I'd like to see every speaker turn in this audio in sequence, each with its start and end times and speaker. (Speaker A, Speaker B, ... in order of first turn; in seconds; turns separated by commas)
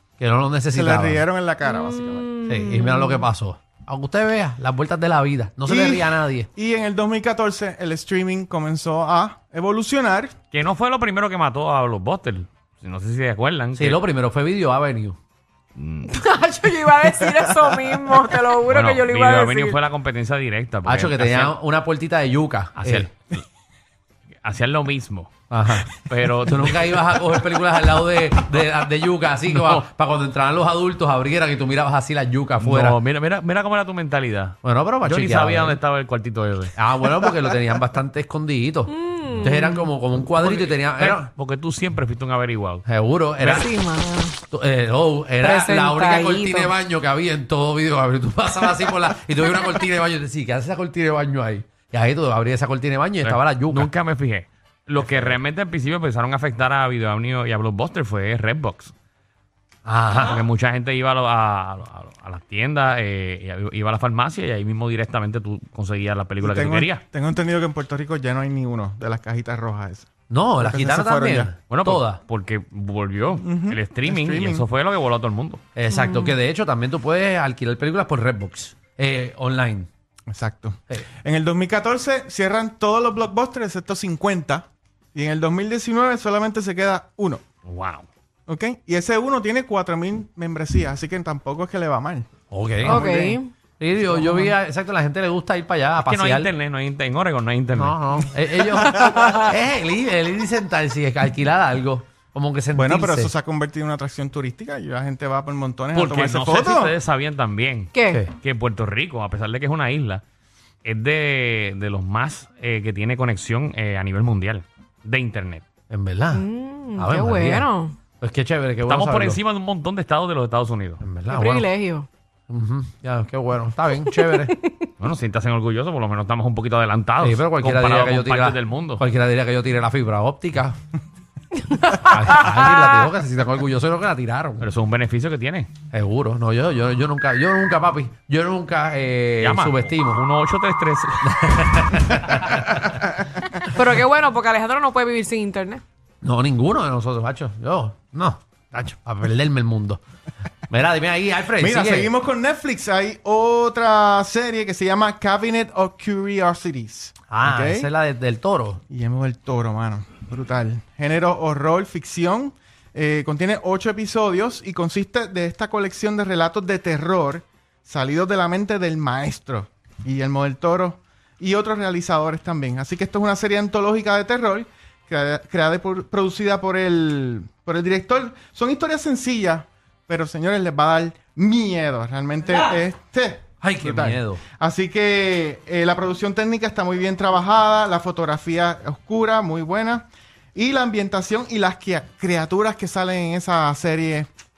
Speaker A: 0.2-1.2, Speaker B: 0.7-2.5, Speaker C: 1.6-3.2, Speaker A: 2.5-6.5, Speaker B: 5.6-10.3, Speaker D: 10.5-14.0, Speaker A: 13.8-15.2, Speaker D: 15.8-16.1, Speaker C: 16.1-19.8, Speaker B: 17.6-18.0, Speaker D: 18.7-21.5, Speaker A: 20.9-23.1, Speaker D: 22.8-23.4, Speaker D: 24.4-27.4, Speaker A: 25.5-25.9, Speaker A: 26.5-33.0, Speaker D: 29.5-29.8, Speaker D: 32.6-36.7, Speaker A: 34.6-35.8, Speaker A: 36.8-41.3, Speaker C: 38.9-39.9, Speaker D: 40.3-42.9, Speaker A: 42.9-43.7, Speaker D: 43.4-43.7, Speaker C: 43.6-44.4, Speaker A: 44.5-53.9, Speaker C: 45.4-46.7, Speaker D: 53.2-58.9, Speaker A: 59.9-60.4, Speaker D: 60.2-67.0, Speaker B: 66.4-71.5, Speaker A: 70.3-72.2, Speaker D: 71.7-75.6, Speaker B: 73.4-74.6, Speaker A: 75.8-79.9, Speaker C: 76.0-76.3, Speaker B: 80.3-87.4, Speaker D: 87.6-88.0, Speaker B: 88.5-92.3, Speaker A: 92.5-93.0, Speaker B: 92.8-93.4, Speaker C: 92.9-93.5, Speaker A: 93.8-96.5, Speaker B: 94.1-94.5, Speaker D: 96.0-98.0, Speaker A: 97.8-103.3, Speaker B: 98.7-99.5, Speaker B: 102.7-106.9, Speaker D: 105.9-110.2, Speaker C: 107.9-108.2, Speaker D: 110.8-115.7, Speaker A: 115.9-116.5, Speaker C: 116.3-118.0, Speaker A: 117.0-117.7, Speaker A: 118.2-119.4, Speaker D: 118.8-121.0, Speaker A: 121.0-121.7, Speaker C: 121.3-122.1, Speaker A: 122.5-124.5, Speaker C: 124.1-124.8, Speaker D: 125.0-129.0, Speaker A: 127.2-130.8, Speaker C: 131.6-132.6, Speaker A: 132.1-134.7, Speaker D: 134.6-135.7, Speaker A: 135.9-140.2, Speaker D: 139.4-142.5, Speaker A: 141.3-142.8, Speaker C: 143.7-145.8, Speaker A: 146.2-150.0, Speaker A: 150.7-152.1, Speaker B: 151.6-157.9, Speaker A: 157.3-158.8, Speaker B: 158.9-194.3, Speaker A: 183.6-184.4